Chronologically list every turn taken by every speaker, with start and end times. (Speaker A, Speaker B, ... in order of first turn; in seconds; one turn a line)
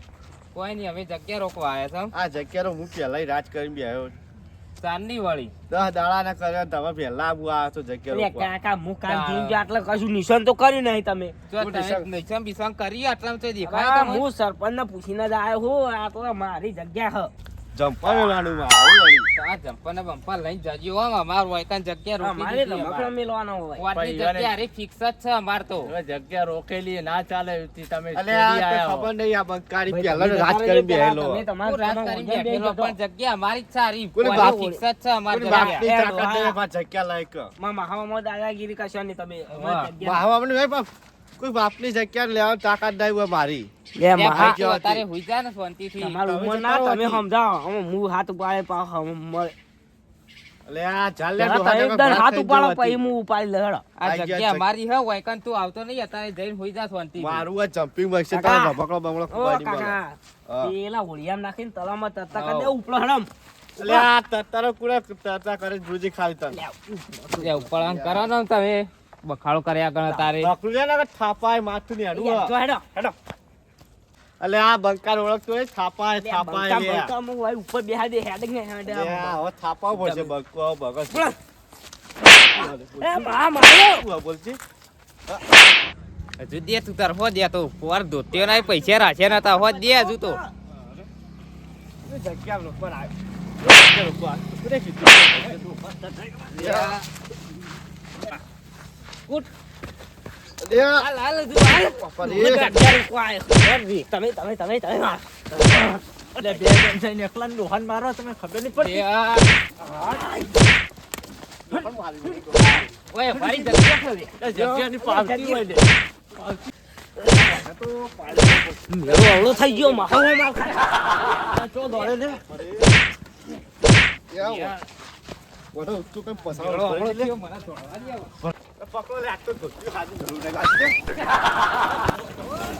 Speaker A: 0.5-2.1
Speaker B: 2.1-4.1
Speaker A: 4.8-5.5
Speaker B: 5.7-8.5
Speaker C: 8.1-11.3
Speaker A: 9.1-9.6
Speaker A: 11.5-14.2
Speaker B: 11.6-12.1
Speaker C: 13.6-17.3
Speaker B: 17.7-19.3
Speaker A: 19.3-23.1
Speaker C: 22.2-23.8
Speaker A: 23.8-25.9
Speaker D: 23.9-24.5
Speaker D: 25.8-29.1
Speaker B: 28.1-31.4
Speaker C: 29.9-33.0
Speaker A: 31.6-35.8
Speaker B: 34.1-34.6
Speaker C: 34.2-34.8
Speaker B: 35.3-37.5
Speaker C: 35.5-36.6
Speaker C: 37.6-40.2
Speaker A: 39.5-39.9
Speaker B: 40.0-43.7
Speaker C: 44.0-44.6
Speaker A: 44.2-46.2
Speaker B: 44.3-45.0
Speaker C: 46.0-49.5
Speaker B: 46.2-47.2
Speaker B: 50.6-53.0
Speaker C: 51.4-53.8
Speaker A: 54.0-57.5
Speaker B: 54.0-54.6
Speaker B: 57.2-60.7
Speaker C: 58.3-58.8
Speaker C: 59.3-64.1
Speaker A: 62.3-62.7
Speaker B: 63.8-66.6
Speaker C: 66.5-67.7
Speaker A: 67.4-70.5
Speaker B: 67.7-68.3
Speaker B: 70.4-72.5
Speaker C: 72.1-73.1
Speaker B: 74.4-77.1
Speaker C: 76.2-79.4
Speaker B: 78.8-81.3
Speaker C: 79.9-80.3
Speaker C: 81.1-81.4
Speaker B: 82.3-84.6
Speaker C: 82.5-84.0
Speaker A: 86.4-90.4
Speaker C: 88.4-90.5
Speaker B: 92.0-95.6
Speaker C: 95.5-96.8
Speaker B: 96.5-97.0
Speaker A: 96.6-97.0
Speaker B: 100.6-101.1
Speaker A: 100.8-102.0
Speaker B: 101.8-102.9
Speaker C: 102.2-106.0
Speaker D: 106.4-109.0
Speaker A: 108.7-109.5
Speaker C: 109.8-110.5
Speaker B: 111.7-112.9
Speaker A: 113.1-114.3
Speaker D: 114.4-116.7
Speaker C: 114.5-115.6
Speaker C: 117.2-121.1
Speaker B: 117.6-120.0
Speaker D: 121.5-122.4
Speaker B: 122.5-122.9
Speaker B: 124.3-124.8
Speaker A: 124.4-124.8
Speaker B: 125.7-127.3
Speaker A: 126.5-128.3
Speaker B: 128.4-130.9